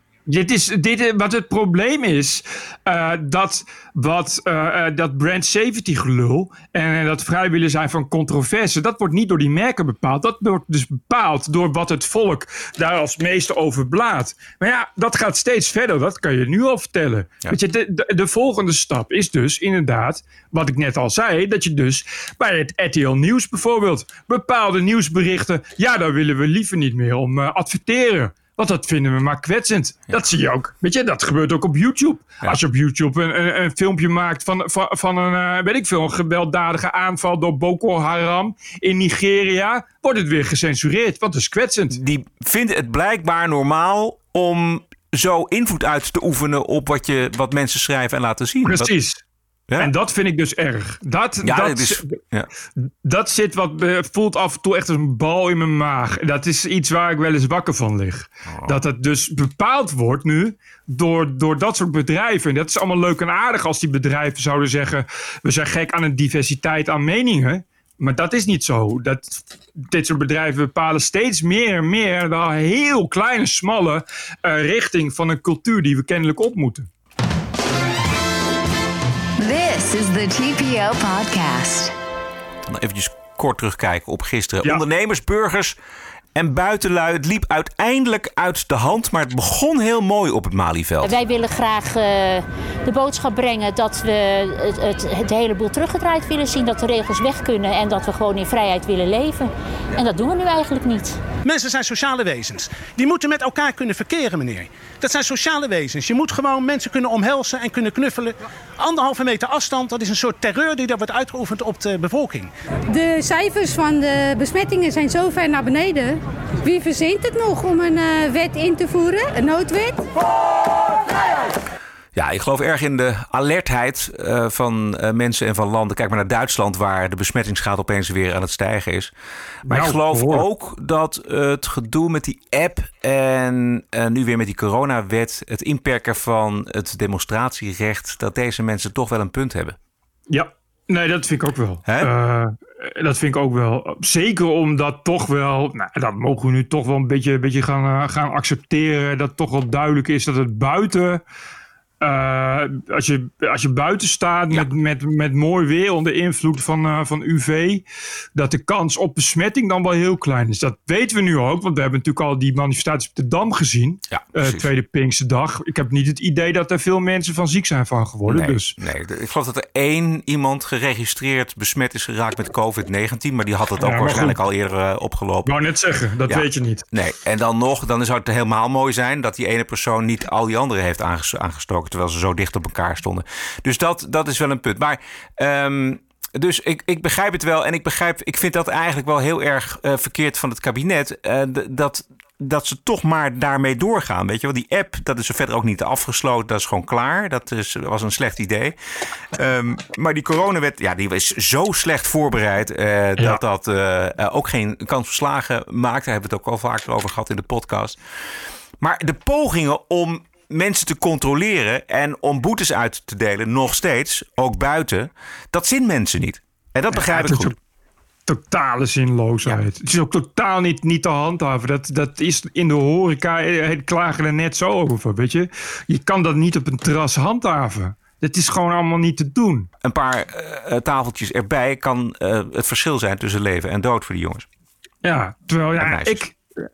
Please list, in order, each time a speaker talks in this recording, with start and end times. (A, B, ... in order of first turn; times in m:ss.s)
0:00.3-0:42.0 A
0:41.9-0:48.9 B
0:48.6-0:49.2 A
0:49.8-0:52.1 A
0:51.4-0:52.5 B
0:53.0-1:16.9 A
0:58.5-0:58.8 B
1:19.4-1:21.9 C
1:22.7-1:25.7 B
1:26.3-1:31.1 B
1:31.0-1:41.2 D
1:41.4-1:52.5 E
1:52.9-2:00.0 F
2:02.1-2:09.1 B
2:09.6-2:10.4 A
2:09.7-2:19.8 B
2:20.3-2:31.2 A
2:32.0-2:37.8 A
2:38.4-2:48.8 A
2:44.1-2:44.7 B
2:48.2-2:55.5 B
2:53.8-2:54.4 A
2:55.4-2:56.8 A
2:56.3-3:18.7 B
3:19.4-3:28.0 B
3:28.8-3:37.5 B
3:36.9-3:37.5 A
3:38.3-3:49.7 A
3:49.8-3:54.4 B
3:55.0-3:56.4 A
3:55.8-3:56.2 B